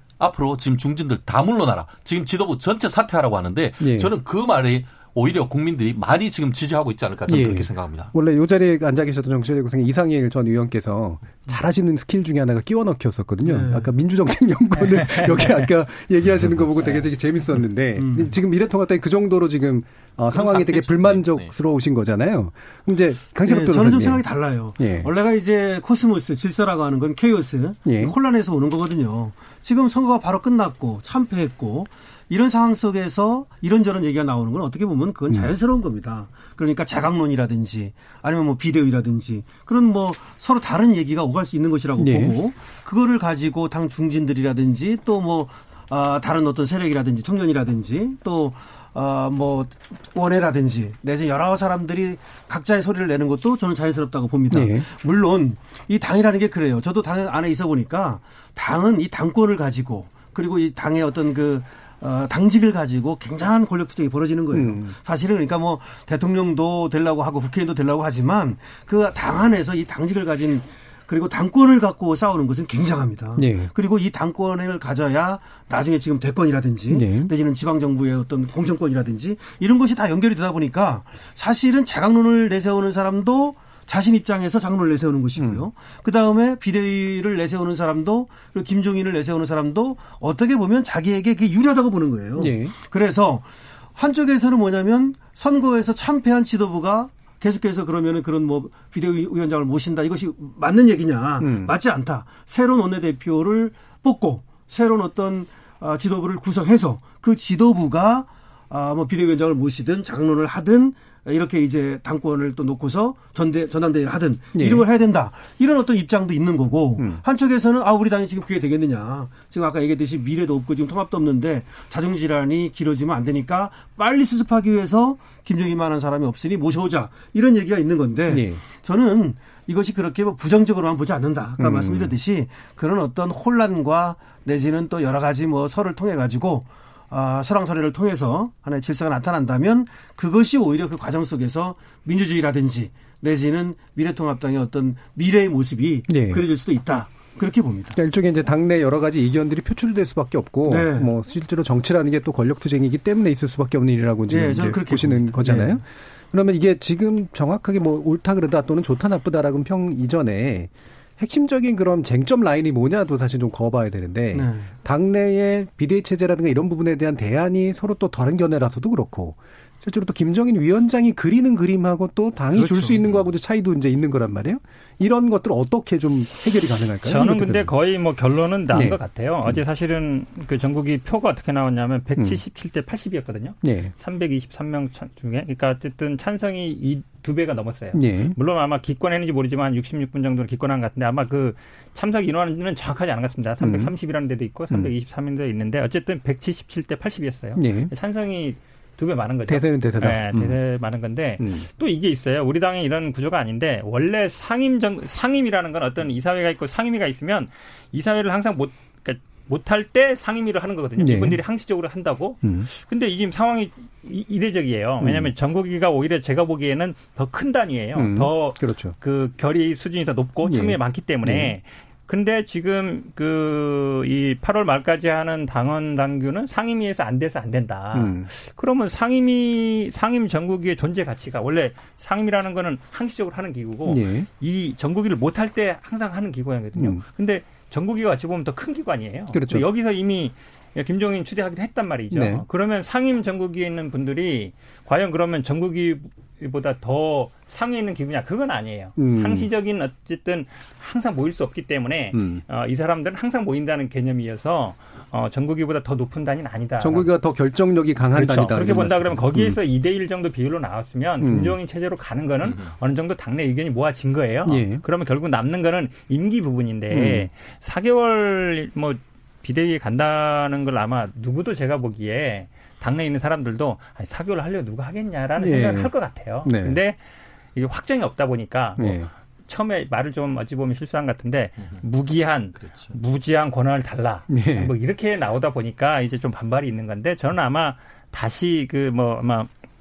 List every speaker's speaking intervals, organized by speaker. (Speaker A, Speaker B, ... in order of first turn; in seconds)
Speaker A: 0.2-8.1, 20.3-21.5, 262.4-262.7, 282.6-283.0
Speaker B: 3.8-4.1, 7.3-24.2, 24.8-25.1, 27.9-28.1, 42.0-42.4, 54.5-54.9, 64.5-65.0, 73.4-73.7, 76.9-77.3, 85.4-85.7, 92.4-92.7, 101.4-101.8, 114.5-114.8, 117.0-117.2, 128.3-128.6, 131.6-132.1, 146.1-146.4, 147.9-177.7, 178.7-179.6, 182.2-182.4, 183.6-183.9, 187.9-188.4, 193.6-193.9, 197.6-197.9, 199.5-200.6, 201.4-201.7, 211.0-211.4, 212.4-212.7, 215.0-215.3, 217.9-219.0, 220.4-221.5, 227.9-228.3, 233.9-234.3, 236.8-237.0, 239.3-239.7, 242.1-242.4, 249.0-249.5, 252.1-252.4, 256.8-259.6, 261.2-261.6, 264.5-264.8, 266.9-267.3, 275.4-276.8, 278.8-279.1, 284.3-284.7
Speaker C: 13.5-13.9, 18.0-18.3, 23.5-148.0, 150.7-151.1, 154.3-155.8, 164.3-164.7, 172.5-173.1
Speaker D: 14.8-15.7, 177.0-257.1, 258.1-277.0, 277.5-289.5